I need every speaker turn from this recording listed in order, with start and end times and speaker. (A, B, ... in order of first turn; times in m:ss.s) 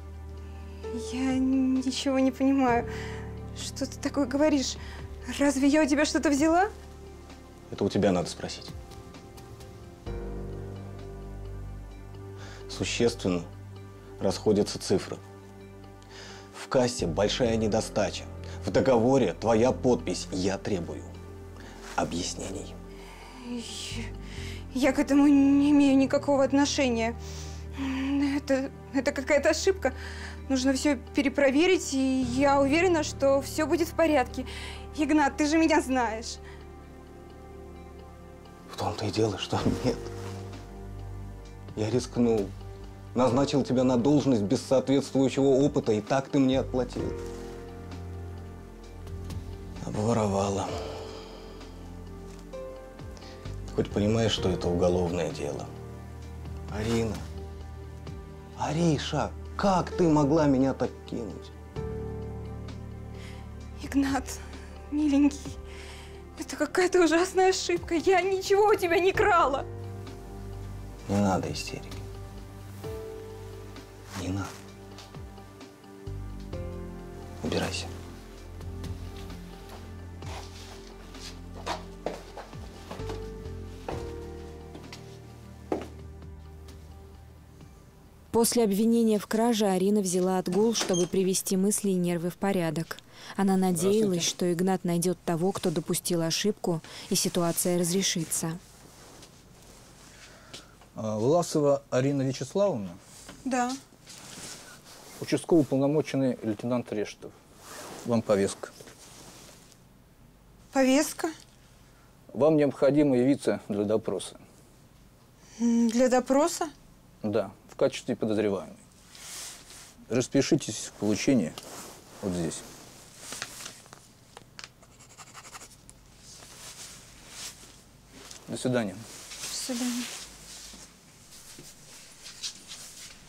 0:00.9-0:02.9 A
0:03.6-0:06.7 A
0:07.7-0:08.7 B
0:12.7-0:13.5 B
0:14.2-0:15.2 B
0:16.5-0:21.1 B
0:22.0-0:22.7 B
0:23.4-0:24.1 A
0:24.7-0:27.2 A
0:27.8-0:29.9 A
0:30.5-0:36.4 A
0:38.7-0:40.1 B
0:41.7-0:42.5 B
0:43.1-0:47.2 B
0:49.8-0:50.7 B
0:53.7-0:55.7 B
0:56.7-0:57.2 B
0:58.6-1:01.5 B
1:03.8-1:04.4 A
1:04.9-1:05.6 A
1:06.4-1:09.6 A
1:11.1-1:12.0 B
1:14.1-1:14.5 B
1:17.4-1:17.9 B
1:28.3-1:38.6 C
1:40.9-1:43.0 D
1:43.4-1:43.8 A
1:45.2-1:47.3 D
1:48.0-1:48.7 D
1:50.7-1:51.3 A
1:52.3-1:54.4 D
1:55.6-1:56.7 A
1:57.2-1:58.8 D
2:00.1-2:01.6 D
2:02.2-2:02.6 D
2:08.5-2:09.0 D
2:09.5-2:10.1 A